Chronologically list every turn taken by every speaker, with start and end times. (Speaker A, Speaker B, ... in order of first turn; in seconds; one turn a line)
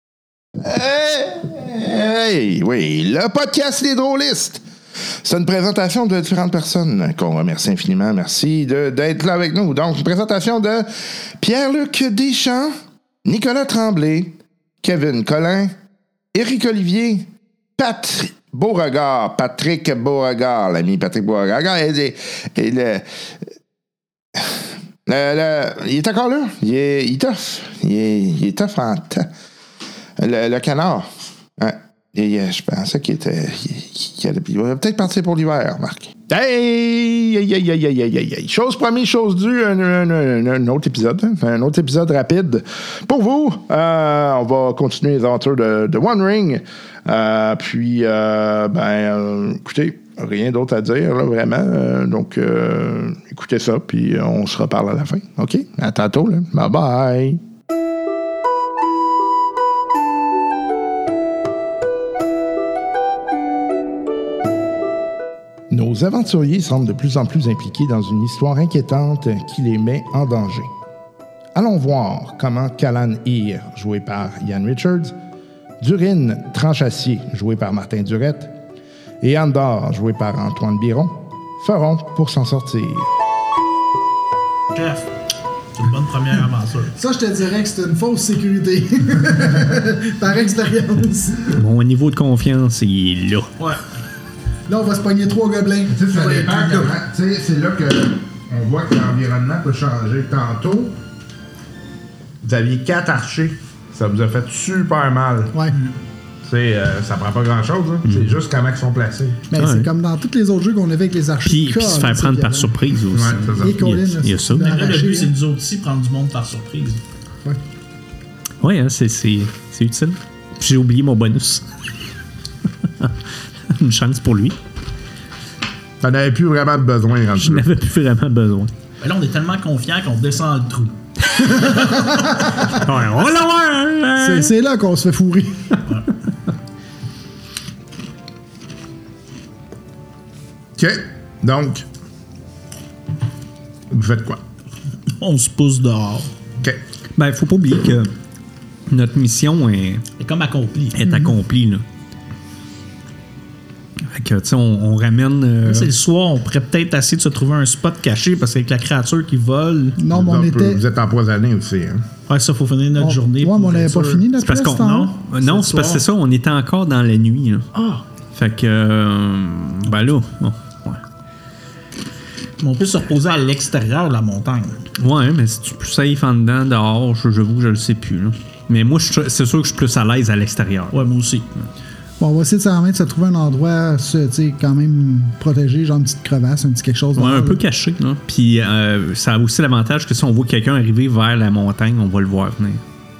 Speaker A: 0.6-15.7
Speaker A: 16.3-23.0
Speaker A: 25.1-29.3
Speaker A: 30.2-57.4
Speaker A: 65.7-70.7
Speaker A: 71.5-75.1
Speaker A: 75.8-78.5
Speaker A: 79.2-83.1
Speaker B: 84.7-85.1
Speaker B: 85.7-86.9
Speaker C: 86.9-91.6
Speaker D: 91.5-93.5
Speaker C: 94.7-96.9
Speaker A: 95.9-101.0
Speaker A: 102.4-105.5
Speaker A: 106.4-109.4
Speaker D: 108.0-108.4
Speaker C: 109.5-112.7
Speaker D: 109.6-109.9
Speaker D: 111.4-114.8
Speaker A: 113.1-113.8
Speaker C: 113.6-115.3
Speaker B: 114.5-117.0
Speaker D: 118.6-121.7
Speaker D: 123.7-124.6
Speaker A: 126.0-127.6
Speaker D: 127.4-128.7
Speaker B: 129.0-131.0
Speaker D: 131.3-132.0
Speaker C: 132.1-132.7
Speaker D: 132.7-134.5
Speaker C: 134.2-135.8
Speaker A: 140.8-141.8
Speaker A: 143.9-144.4
Speaker B: 145.2-146.3
Speaker D: 147.2-148.1
Speaker D: 148.9-150.0
Speaker B: 150.2-151.0
Speaker D: 150.9-151.8
Speaker C: 151.0-151.4
Speaker D: 154.0-155.9
Speaker B: 155.6-160.0
Speaker C: 160.0-160.8
Speaker A: 160.1-162.1
Speaker B: 162.3-166.0
Speaker C: 163.0-165.1
Speaker D: 164.4-167.7
Speaker B: 167.8-168.0
Speaker D: 168.3-171.0
Speaker B: 172.6-174.9
Speaker D: 175.0-181.0
Speaker B: 180.9-181.4
Speaker C: 182.2-187.6
Speaker D: 187.2-192.8